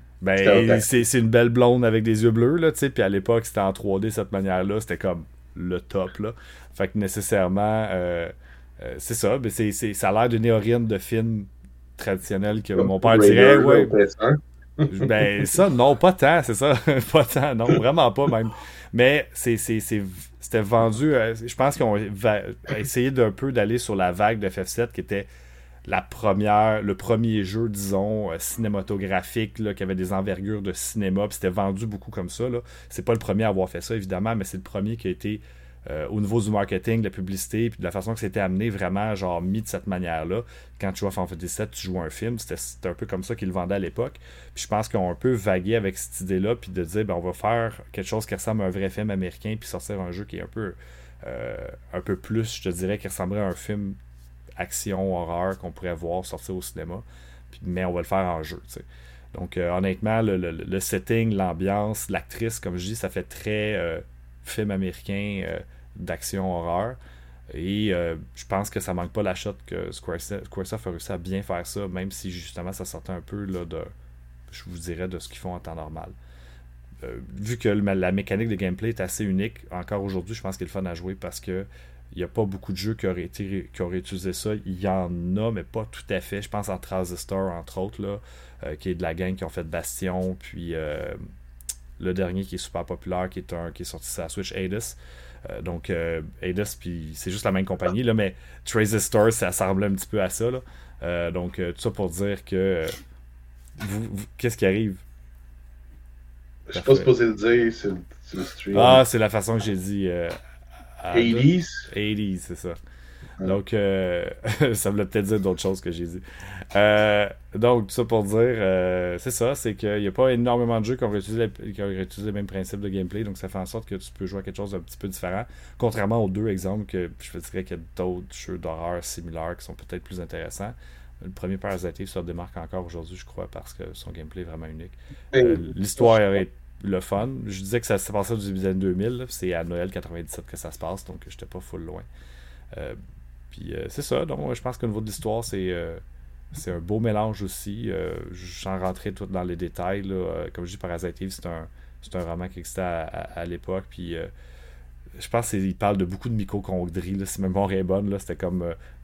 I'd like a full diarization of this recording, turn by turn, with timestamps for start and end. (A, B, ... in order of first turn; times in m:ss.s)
0:00.2-0:14.0 A
0:00.4-0:01.0 B
0:12.8-0:15.5 B
0:14.9-0:25.3 A
0:25.8-0:54.0 A
0:54.6-1:07.0 A
1:07.5-1:13.9 A
1:14.5-1:16.1 A
1:17.0-1:31.2 A
1:32.0-1:43.0 A
1:43.8-1:45.0 A
1:46.7-1:49.0 B
1:46.7-1:47.1 A
1:48.7-1:50.4 A
1:51.0-1:52.8 A
1:51.1-1:51.9 B
1:53.4-2:22.0 A
2:15.3-2:16.2 B
2:22.7-2:23.0 A
2:23.5-2:34.3 A
2:35.2-2:38.7 A